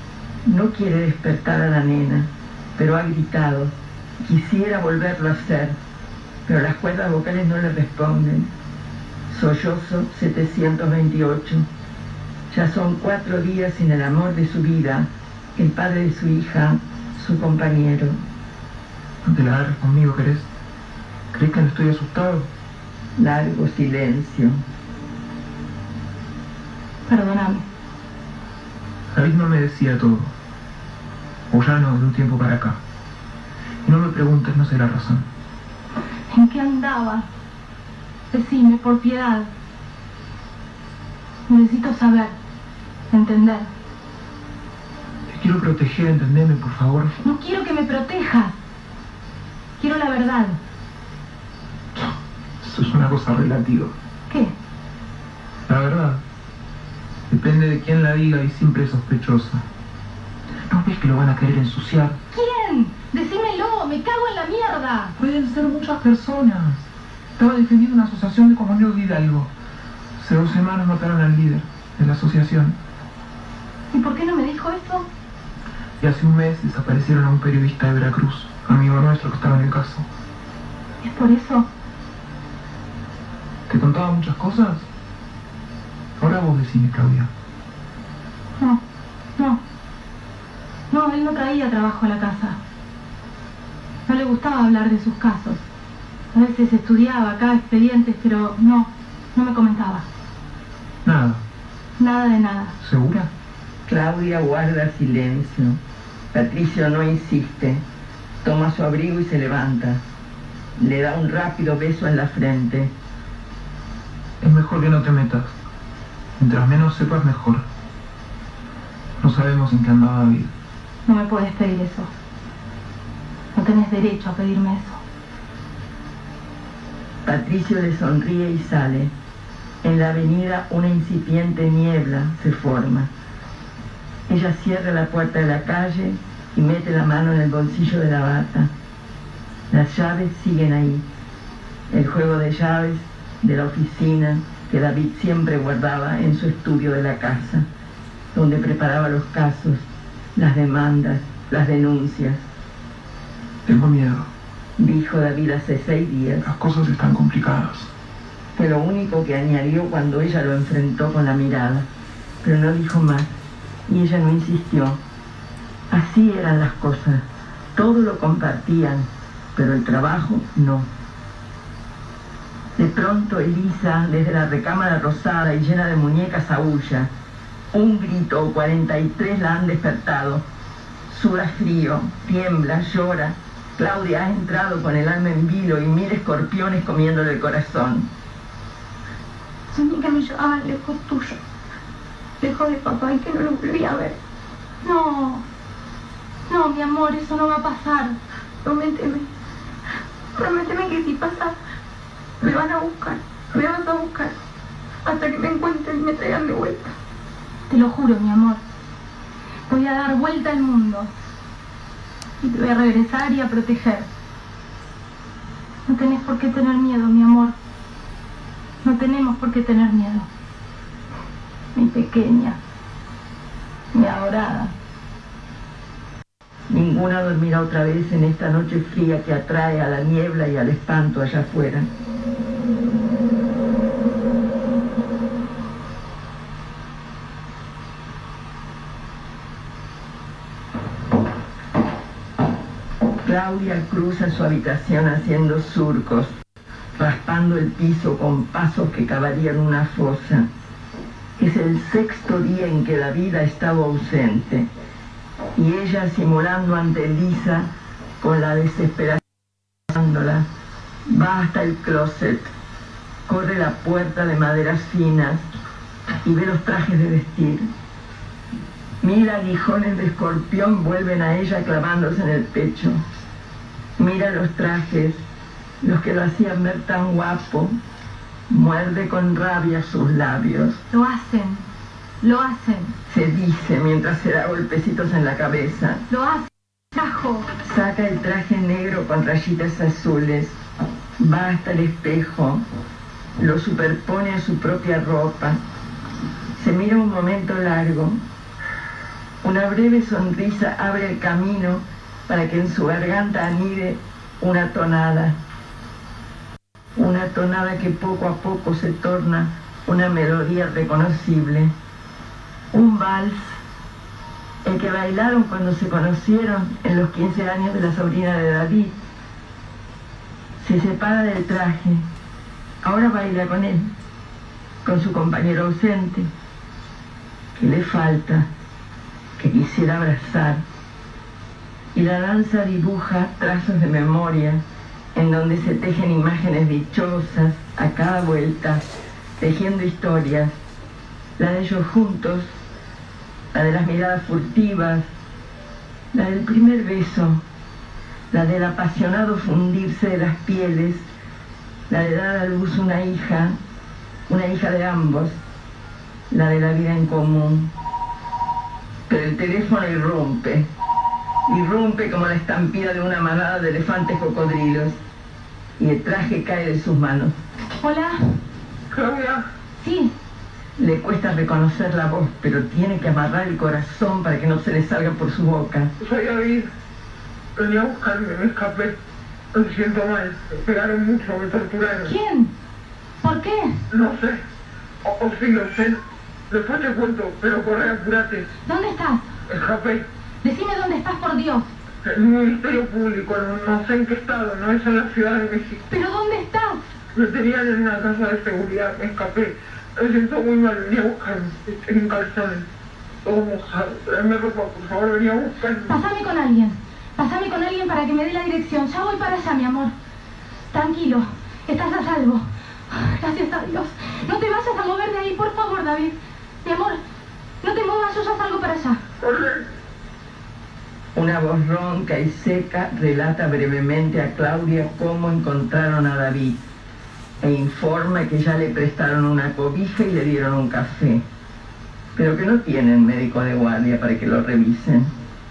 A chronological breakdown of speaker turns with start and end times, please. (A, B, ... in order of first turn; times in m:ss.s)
0:00.4-0:05.7 A
0:06.5-0:08.5 A
0:09.3-0:11.6 A
0:12.5-0:18.2 A
0:19.2-0:20.5 B
0:21.3-0:22.5 B
0:23.2-0:24.6 A
0:27.1-0:27.6 C
0:29.1-0:30.3 B
0:31.5-0:32.8 B
0:33.8-0:35.3 B
0:36.3-0:37.3 C
0:38.3-0:39.5 C
0:41.5-0:42.4 C
0:43.1-0:43.7 C
0:45.3-0:47.2 B
0:47.2-0:48.5 C
0:49.8-0:50.6 C
0:52.0-0:53.9 B
0:55.7-0:56.2 B
0:57.3-0:59.6 B
1:00.7-1:02.2 B
1:02.3-1:05.2 C
1:05.2-1:09.5 B
1:10.2-1:12.8 B
1:13.9-1:15.0 C
1:16.0-1:20.1 B
1:21.0-1:21.7 C
1:23.7-1:24.9 B
1:26.2-1:27.3 B
1:30.9-1:32.6 C
1:34.1-1:35.6 C
1:36.3-1:40.1 C
1:41.0-1:41.4 B
1:42.0-1:42.8 C
1:42.8-1:43.3 B
1:43.9-1:45.8 A
1:46.3-1:47.8 A
1:48.4-1:50.0 A
1:50.8-1:52.9 A
1:54.4-1:55.5 B
1:56.4-1:57.6 B
1:59.2-2:00.5 B
2:01.1-2:02.1 C
2:03.5-2:05.0 C
2:07.2-2:09.1 A
2:09.8-2:13.1 A
2:14.3-2:18.7 A
2:19.7-2:21.0 A
2:21.9-2:27.6 A
2:28.3-2:29.8 A
2:30.4-2:32.4 A
2:33.7-2:34.3 B
2:34.8-2:36.5 A
2:36.4-2:37.9 B
2:38.6-2:41.8 A
2:42.4-2:43.3 A
2:43.9-2:45.0 A
2:45.9-2:47.2 A
2:47.8-2:50.9 A
2:52.8-2:57.1 A
2:57.7-3:00.4 A
3:01.1-3:08.1 A
3:09.7-3:11.4 D
3:12.4-3:14.2 D
3:14.8-3:15.4 C
3:16.5-3:18.2 C
3:18.6-3:19.3 D
3:20.4-3:21.5 D
3:22.4-3:24.3 D
3:25.0-3:26.9 D
3:27.7-3:28.6 C
3:29.7-3:31.1 C
3:32.4-3:34.1 C
3:35.9-3:37.5 C
3:38.8-3:40.3 C
3:41.8-3:42.6 C
3:43.9-3:44.7 C
3:46.7-3:51.9 A
4:03.2-4:06.3 A
4:07.0-4:10.5 A
4:11.4-4:14.7 A
4:15.6-4:17.7 A
4:18.2-4:19.2 A
4:19.9-4:20.4 A
4:21.1-4:22.5 A
4:23.3-4:25.4 A
4:26.2-4:27.7 A
4:29.0-4:33.0 A
4:34.0-4:35.2 A
4:35.8-4:37.7 A
4:38.5-4:40.8 A
4:40.9-4:41.6 C
4:42.2-4:42.9 C
4:43.1-4:46.0 A
4:46.1-4:47.5 C
4:47.6-4:50.6 A
4:51.2-4:52.6 A
4:53.4-4:55.6 A
4:56.6-4:58.2 A
4:59.4-5:05.4 A
5:07.0-5:11.7 A
5:12.7-5:13.6 A
5:14.6-5:18.9 A
5:20.6-5:22.0 A
5:22.8-5:23.9 A
5:24.8-5:26.3 A
5:27.6-5:28.5 A
5:29.4-5:30.6 A
5:31.9-5:34.6 A
5:35.1-5:38.8 A
5:39.4-5:40.5 A
5:41.4-5:42.5 A
5:43.5-5:45.0 A
5:46.1-5:47.4 A
5:48.3-5:51.0 A
5:51.9-5:53.6 A
5:54.3-5:55.4 A
5:56.3-5:57.7 A
5:59.1-6:00.7 A
6:01.5-6:05.0 A
6:05.8-6:07.3 A
6:07.8-6:08.3 C
6:08.9-6:09.4 E
6:09.8-6:10.1 C
6:10.8-6:15.9 A
6:16.0-6:16.7 E
6:17.6-6:19.0 E
6:19.5-6:22.1 E
6:22.0-6:22.5 C
6:23.2-6:23.8 C
6:23.9-6:24.4 E
6:25.0-6:28.6 E
6:28.7-6:29.3 C
6:29.5-6:30.0 E
6:30.4-6:31.7 C
6:32.0-6:35.8 E
6:35.9-6:36.8 C
6:37.2-6:42.7 E
6:43.2-6:45.9 E
6:45.9-6:49.9 C
6:50.7-6:57.0 C
6:57.6-6:59.0 C
6:59.2-6:59.6 E
7:01.2-7:06.6 A
7:07.4-7:11.2 A
7:12.2-7:15.1 A